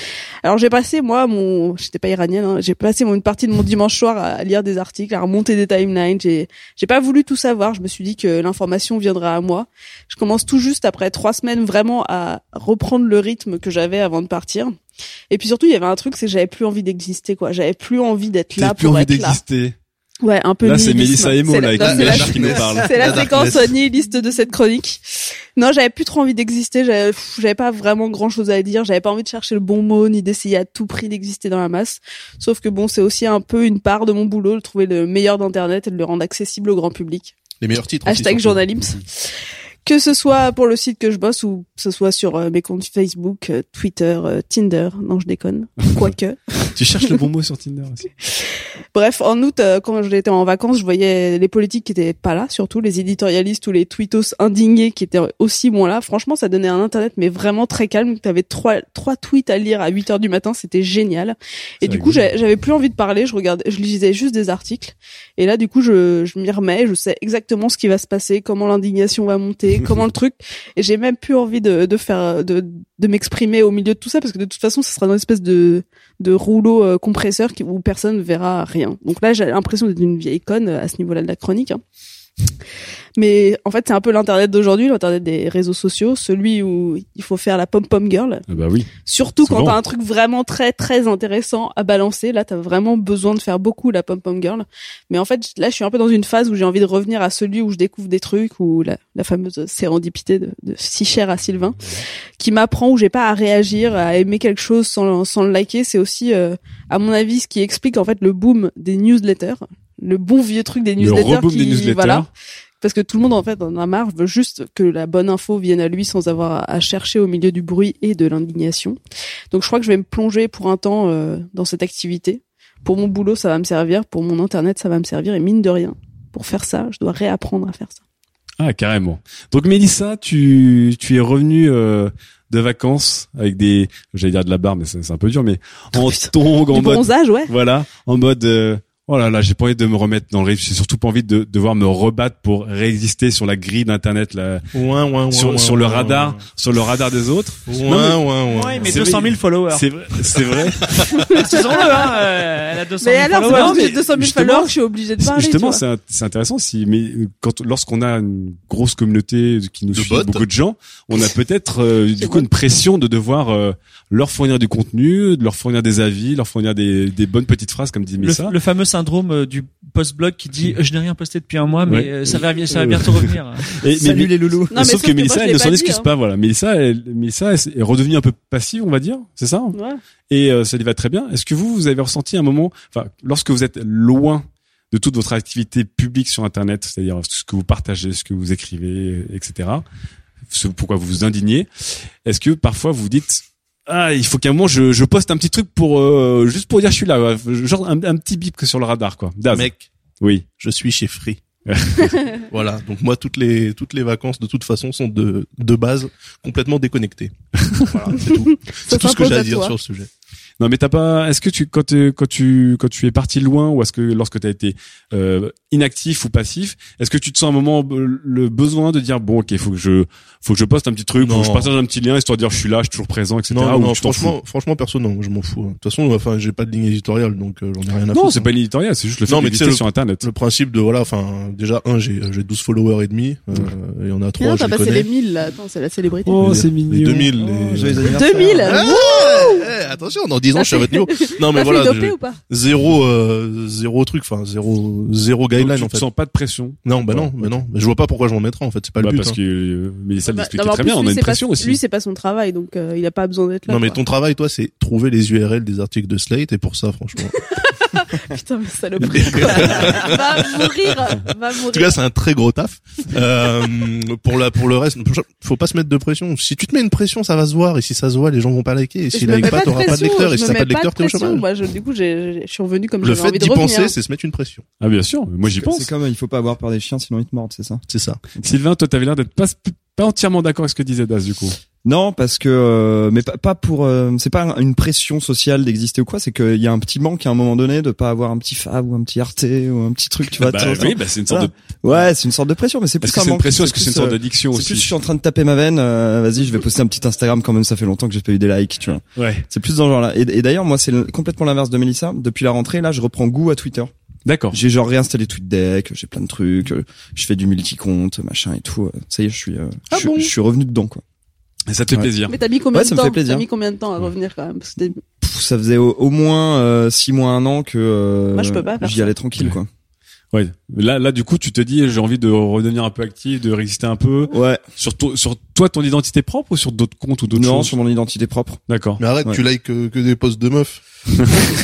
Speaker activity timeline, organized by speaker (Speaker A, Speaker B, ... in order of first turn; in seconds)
Speaker A: 0.4-14.8, 15.3-19.4, 20.2-37.4, 38.0-39.3, 39.9-46.7, 48.9-81.8, 83.2-88.5, 89.1-101.8, 102.4-112.3, 112.8-119.0, 119.5-128.0, 135.9-137.5, 151.3-152.1, 153.0-155.8, 174.7-176.1, 179.7-180.0, 208.3-209.8, 234.4-236.6, 238.1-239.7, 240.6-242.4, 250.3-254.0, 257.4-262.0, 269.1-273.9, 312.3-315.0, 318.3-319.1
Speaker B: 18.6-19.8, 20.6-23.2, 46.8-48.1, 61.8-62.2, 88.5-88.9, 89.4-89.8, 111.0-112.3, 128.6-144.7, 145.3-148.2, 148.8-151.1, 153.5-168.6, 171.9-179.8, 180.3-189.8, 190.5-199.7, 200.2-200.5, 201.7-202.2, 210.6-224.3, 228.1-230.3, 236.3-237.3, 245.6-247.6, 249.0-251.8, 274.8-275.9, 278.4-281.6, 290.4-292.0, 293.0-294.9, 299.2-299.4, 304.3-304.6, 311.7-312.4, 320.3-327.7, 328.7-329.0
Speaker C: 21.8-23.7, 37.6-38.7, 144.7-146.4, 147.7-149.2, 159.9-160.4, 199.5-199.9, 200.6-201.4, 202.5-210.1, 221.2-221.7, 223.5-228.5, 229.3-235.1, 236.5-238.1, 238.6-246.1, 246.8-249.4, 253.7-257.3, 259.1-260.7, 261.7-271.4, 273.0-274.6, 277.9-278.2, 309.9-310.3, 329.0-330.8
Speaker D: 148.5-149.8, 151.3-153.9, 168.2-173.7
Speaker E: 173.9-174.9, 237.4-238.9, 275.4-277.8, 281.9-303.9, 304.5-311.0, 312.7-313.5, 315.2-319.7, 324.3-324.6, 327.3-328.6